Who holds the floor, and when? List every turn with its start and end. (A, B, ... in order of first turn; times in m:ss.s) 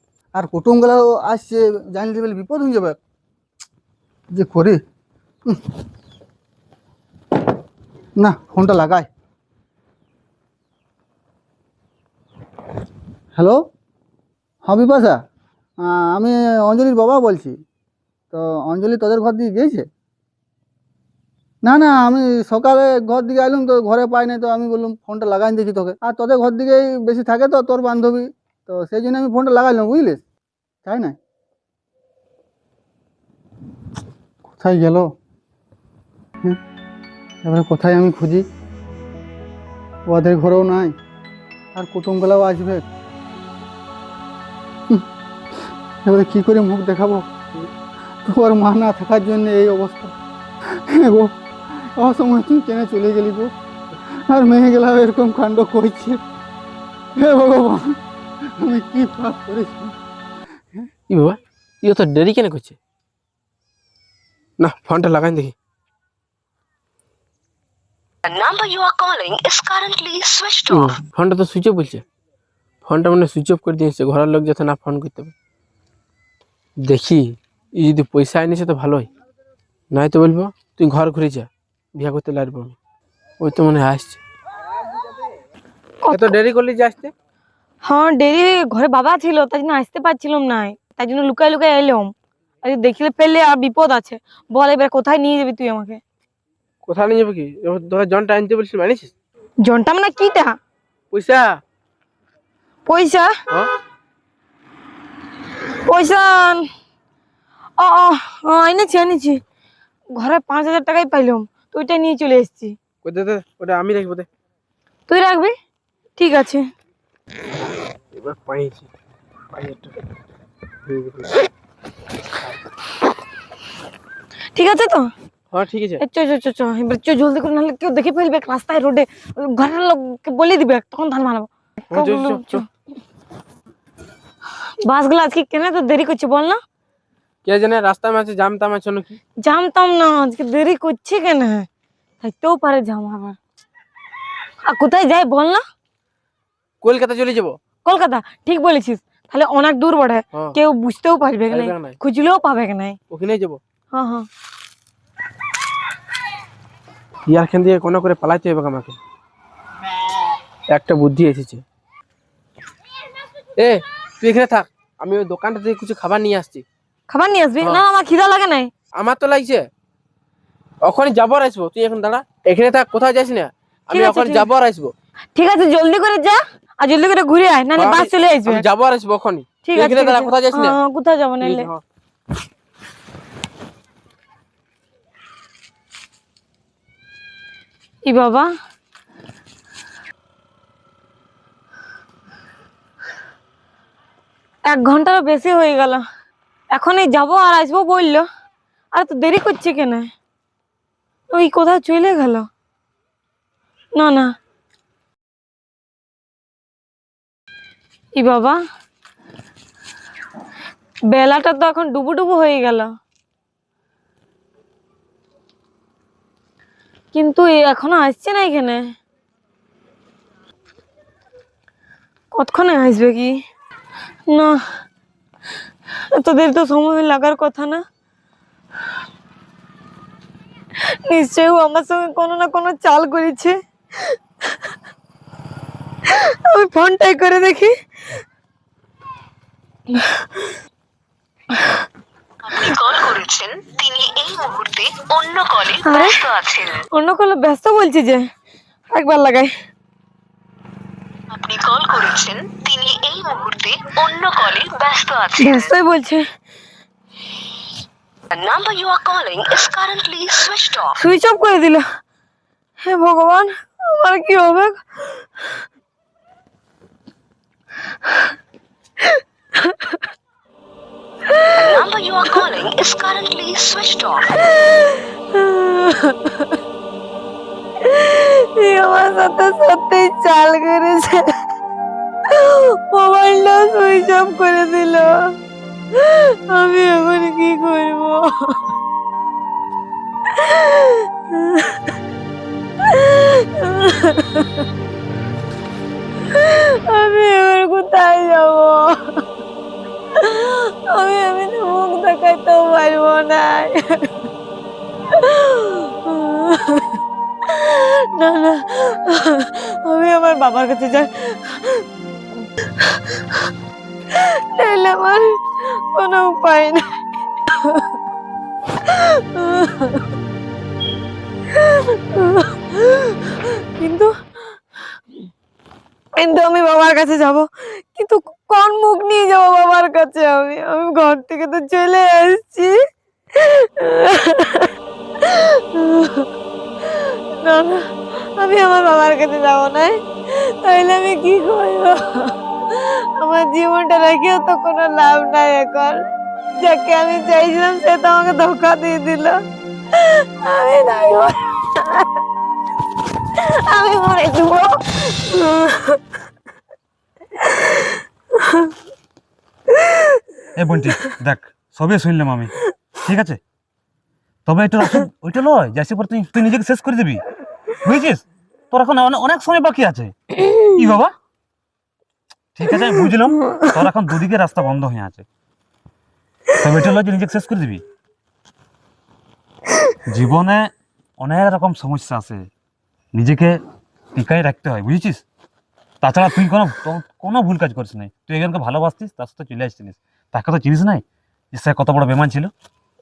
0:00.3-0:03.0 A
0:04.3-0:04.8 A
0:05.4-0:05.8 A
0:08.2-0:09.1 A
0:13.4-0:13.6 A
0:14.6-0:15.2 A
0:15.8-0:17.6 A
0:18.3-0:19.9 A
0:21.6-0:30.2 A
0:30.8-0:31.2 A
0:34.5-0:35.1 A
0:37.4-0:38.5 A
0:40.1-0:41.0 A
0:41.7-0:42.8 A
0:45.6-0:47.7 A
0:48.2-0:50.1 A
0:50.7-0:53.5 A
0:54.1-0:56.2 A
0:57.2-1:00.0 A
1:01.1-1:02.8 B
1:04.6-1:05.5 B
1:08.2-1:11.0 C
1:10.7-1:12.0 B
1:12.8-1:15.3 B
1:16.8-1:19.1 B
1:19.9-1:22.8 B
1:23.4-1:24.2 B
1:26.0-1:26.4 D
1:26.1-1:27.1 B
1:27.8-1:36.0 D
1:36.9-1:39.1 B
1:39.6-1:40.5 D
1:41.1-1:41.6 B
1:42.9-1:43.3 D
1:45.9-1:46.7 D
1:47.8-1:49.4 D
1:50.2-1:52.8 D
1:53.0-1:54.3 B
1:55.1-1:55.6 D
1:56.2-1:56.7 D
1:58.1-1:58.9 B
1:59.5-2:00.0 B
2:00.9-2:01.4 B
2:04.6-2:05.1 D
2:05.5-2:06.0 B
2:06.0-2:12.7 D
2:11.9-2:12.6 B
2:14.8-2:16.6 D
2:17.4-2:19.2 B
2:19.4-2:21.7 D
2:22.2-2:23.4 D
2:24.6-2:25.6 D
2:26.8-2:27.6 B
2:27.8-2:33.0 D
2:31.5-2:32.0 B
2:33.1-2:33.6 B
2:33.9-2:34.3 D
2:37.3-2:39.0 B
2:40.7-2:41.6 B
2:43.6-2:46.6 B
2:47.1-2:48.7 D
2:49.0-2:49.7 B
2:50.8-2:54.9 B
2:53.9-2:54.5 D
2:55.4-2:58.6 D
2:57.8-3:00.8 B
2:59.6-3:01.7 D
3:01.4-3:01.8 B
3:08.0-3:08.5 D
3:14.7-3:16.0 D
3:16.7-3:18.2 D
3:18.9-3:20.1 D
3:21.3-3:22.5 D
3:24.0-3:24.3 D
3:28.2-3:28.6 D
3:31.1-3:32.9 D
3:37.1-3:38.8 D
3:42.3-3:43.3 D
3:44.3-3:44.6 D
3:46.2-3:47.8 D
3:51.1-3:54.2 D
3:56.1-3:57.7 D
3:59.9-4:00.4 D
4:01.6-4:01.8 D
4:02.4-4:06.8 C
4:05.8-4:06.2 D
4:06.9-4:08.3 D
4:08.9-4:09.5 D
4:11.3-4:15.7 C
4:15.4-4:16.2 D
4:18.3-4:21.0 C
4:21.0-4:21.8 D
4:22.8-4:25.3 D
4:29.0-4:30.0 D
4:31.3-4:31.8 D
4:31.6-4:34.4 C
4:34.4-4:36.5 D
4:37.8-4:41.4 D
4:42.3-4:45.3 D
4:45.9-4:48.6 D
4:50.3-4:51.8 D
4:52.8-4:54.6 D
4:56.3-4:59.2 D
5:00.2-5:04.1 D
5:05.1-5:11.8 D
5:12.8-5:13.4 D
5:14.1-5:17.9 D
5:18.8-5:20.0 D
5:21.5-5:24.1 D
5:26.2-5:32.8 D
5:33.3-5:36.3 D
5:36.8-5:46.1 D
5:46.6-5:49.4 D
5:49.9-5:52.1 D
5:53.3-5:56.0 D
5:57.4-5:58.7 D
5:59.7-6:00.2 D
6:00.6-6:03.4 E
6:04.5-6:07.3 E
6:07.8-6:11.2 E
6:10.4-6:10.7 D
6:12.6-6:15.2 E
6:12.7-6:13.7 D
6:16.6-6:17.8 E
6:20.1-6:22.5 E
6:23.1-6:23.6 E
6:24.2-6:25.2 E
6:26.0-6:32.5 E